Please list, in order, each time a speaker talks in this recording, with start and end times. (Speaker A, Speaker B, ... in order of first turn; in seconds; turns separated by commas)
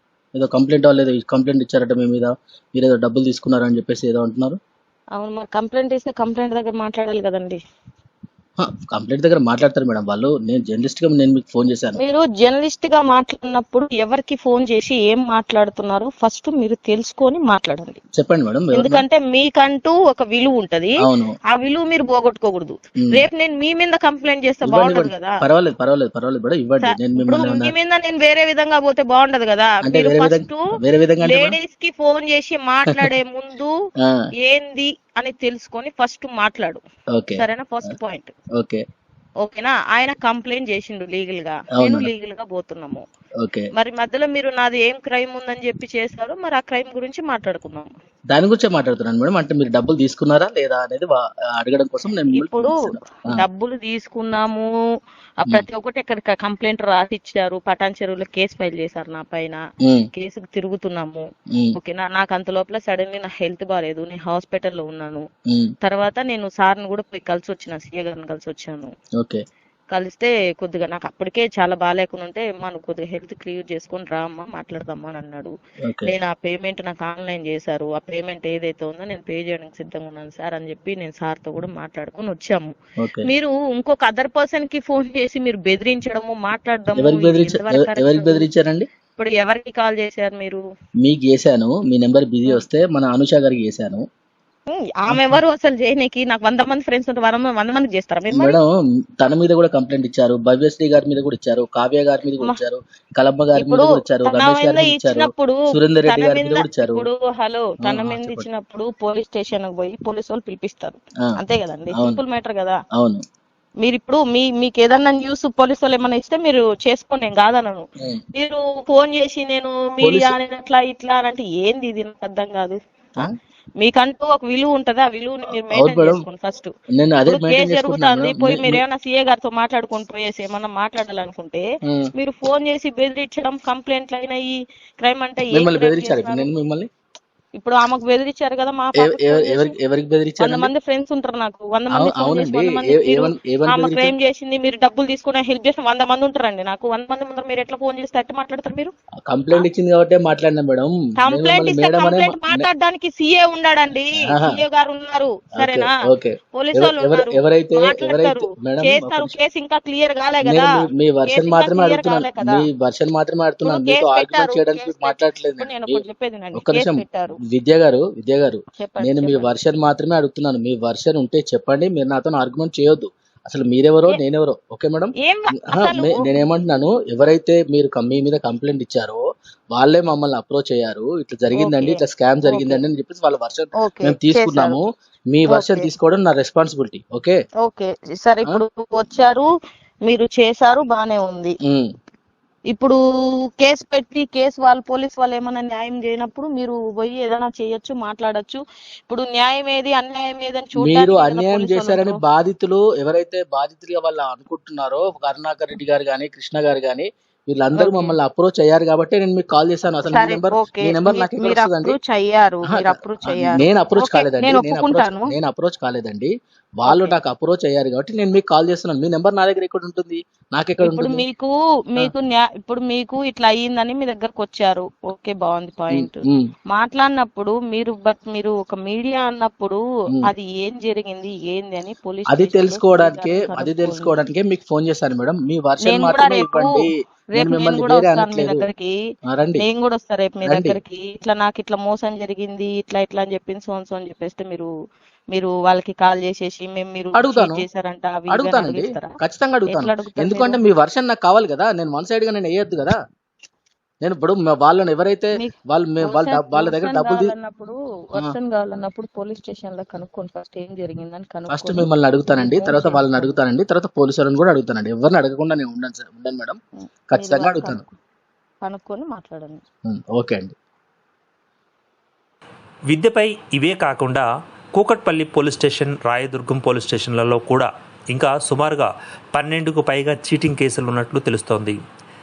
Speaker A: 0.3-4.6, Speaker B: 5.2-7.6, Speaker A: 8.6-12.0, Speaker B: 12.0-18.0, Speaker A: 18.1-19.0, Speaker B: 18.7-20.9, Speaker A: 21.0-21.4, Speaker B: 21.5-25.4, Speaker A: 24.6-27.7, Speaker B: 26.8-30.6, Speaker A: 29.8-31.6, Speaker B: 31.2-33.7, Speaker B: 34.4-36.8, Speaker A: 37.1-37.5, Speaker B: 37.4-38.3, Speaker B: 39.4-43.0, Speaker A: 41.8-42.1, Speaker A: 43.4-43.7, Speaker B: 43.8-47.9, Speaker A: 48.3-53.4, Speaker B: 52.3-54.7, Speaker B: 55.4-59.6, Speaker B: 60.1-61.2, Speaker B: 61.8-65.2, Speaker B: 65.8-68.9, Speaker B: 69.9-75.5, Speaker A: 75.8-76.1, Speaker B: 76.0-82.7, Speaker A: 83.0-83.3, Speaker B: 83.3-88.5, Speaker A: 87.0-88.9, Speaker B: 89.2-90.6, Speaker A: 91.0-94.0, Speaker B: 94.7-98.6, Speaker A: 95.1-95.4, Speaker A: 98.3-107.1, Speaker B: 103.6-112.8, Speaker A: 107.8-108.5, Speaker A: 112.0-112.2, Speaker B: 113.8-126.7, Speaker A: 120.0-120.4, Speaker A: 125.7-126.3, Speaker A: 127.0-128.8, Speaker B: 127.3-131.7, Speaker B: 132.2-136.5, Speaker A: 135.5-136.9, Speaker B: 137.6-139.8, Speaker A: 139.0-140.7, Speaker B: 140.4-148.9, Speaker A: 141.9-144.1, Speaker A: 149.3-152.7, Speaker B: 151.2-155.9, Speaker A: 154.2-154.6, Speaker A: 155.6-159.3, Speaker B: 156.5-160.7, Speaker A: 160.4-166.0, Speaker B: 161.3-162.6, Speaker B: 163.7-167.4, Speaker A: 166.6-175.2, Speaker B: 168.8-169.5, Speaker B: 175.2-176.2, Speaker A: 175.7-179.2, Speaker A: 179.7-187.4, Speaker B: 181.6-182.8, Speaker B: 183.8-184.8, Speaker B: 185.5-185.9, Speaker B: 187.6-189.5, Speaker B: 190.1-191.5, Speaker B: 192.7-193.0, Speaker B: 193.6-202.2, Speaker A: 200.8-212.0, Speaker B: 207.8-208.1, Speaker B: 210.1-215.3, Speaker A: 212.7-221.2, Speaker B: 216.9-217.2, Speaker B: 220.8-234.2, Speaker A: 225.9-226.5, Speaker A: 232.3-238.7, Speaker B: 235.9-236.8, Speaker B: 237.3-238.9, Speaker A: 239.3-239.7, Speaker B: 239.6-244.7, Speaker A: 240.4-240.8, Speaker B: 245.3-249.1, Speaker A: 247.2-247.7, Speaker A: 248.3-253.0, Speaker B: 249.7-250.6, Speaker A: 254.0-257.3, Speaker B: 256.1-263.4, Speaker A: 261.5-266.6, Speaker B: 266.8-267.9, Speaker A: 267.1-267.8, Speaker B: 268.6-269.6, Speaker A: 269.9-270.6, Speaker C: 272.9-281.8